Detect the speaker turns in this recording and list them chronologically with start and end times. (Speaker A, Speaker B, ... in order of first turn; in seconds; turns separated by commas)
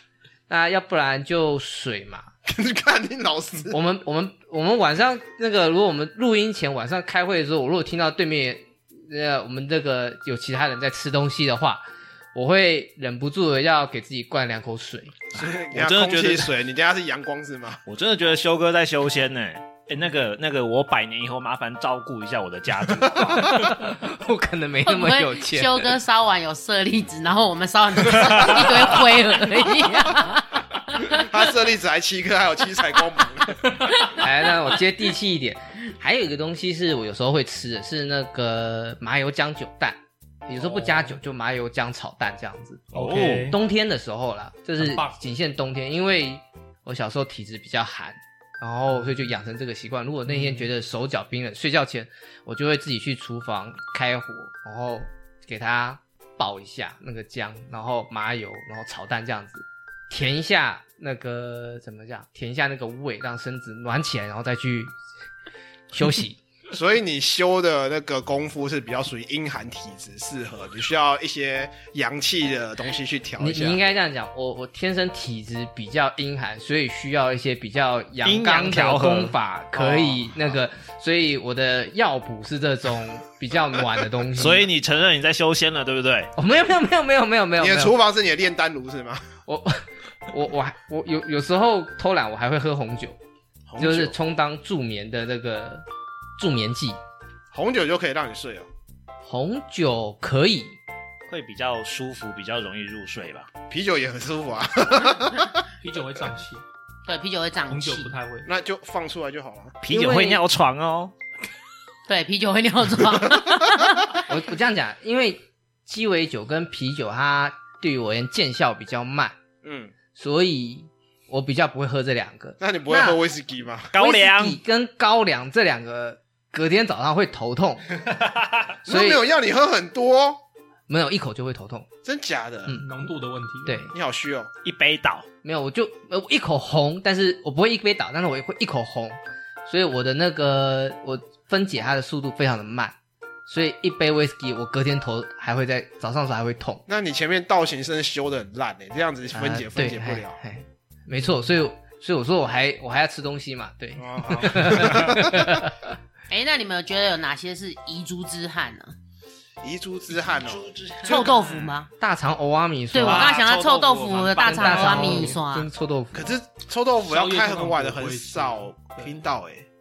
Speaker A: 0.5-2.3, Speaker B: 2.5-3.8, Speaker A: 3.7-15.2, Speaker B: 15.3-17.8, Speaker C: 15.3-16.6, Speaker C: 17.9-23.7, Speaker A: 23.2-25.9, Speaker D: 24.9-31.3, Speaker B: 31.1-33.7, Speaker E: 33.8-34.1, Speaker A: 34.2-64.9, Speaker E: 40.6-41.2, Speaker C: 42.9-43.5, Speaker E: 42.9-43.6, Speaker E: 44.8-45.2, Speaker E: 50.3-50.7, Speaker A: 65.9-66.4, Speaker B: 66.7-73.8, Speaker A: 73.4-84.7, Speaker C: 78.2-79.4, Speaker B: 79.7-80.6, Speaker C: 84.3-86.3, Speaker A: 86.4-88.0, Speaker B: 87.6-89.2, Speaker A: 89.5-93.2, Speaker B: 93.7-94.2, Speaker A: 93.8-95.9, Speaker A: 96.4-97.0, Speaker B: 97.5-98.7, Speaker A: 99.2-100.8, Speaker C: 101.3-103.5, Speaker B: 103.7-105.6, Speaker E: 105.8-106.7, Speaker D: 107.1-108.1, Speaker E: 107.7-108.5, Speaker B: 108.5-109.8, Speaker C: 109.8-111.1, Speaker A: 109.9-110.4, Speaker D: 112.1-114.2, Speaker A: 114.3-119.4, Speaker B: 119.6-119.9, Speaker A: 120.2-123.2, Speaker B: 122.6-123.9, Speaker C: 123.9-124.6, Speaker A: 124.0-128.0, Speaker B: 128.9-130.4, Speaker A: 128.9-129.2, Speaker A: 130.9-131.9, Speaker B: 132.0-132.8, Speaker A: 132.7-133.1, Speaker E: 132.8-133.9, Speaker A: 133.7-133.9, Speaker B: 133.9-134.5, Speaker C: 134.6-135.3, Speaker A: 135.4-142.9, Speaker A: 143.5-146.8, Speaker B: 146.9-150.4, Speaker A: 149.3-155.9, Speaker B: 154.0-155.6, Speaker D: 156.3-158.9, Speaker B: 159.6-161.5, Speaker C: 160.1-161.7, Speaker D: 161.1-161.9, Speaker A: 162.0-163.3, Speaker D: 162.9-165.7, Speaker C: 163.0-165.4, Speaker A: 164.5-166.3, Speaker B: 166.1-169.7, Speaker E: 167.0-169.2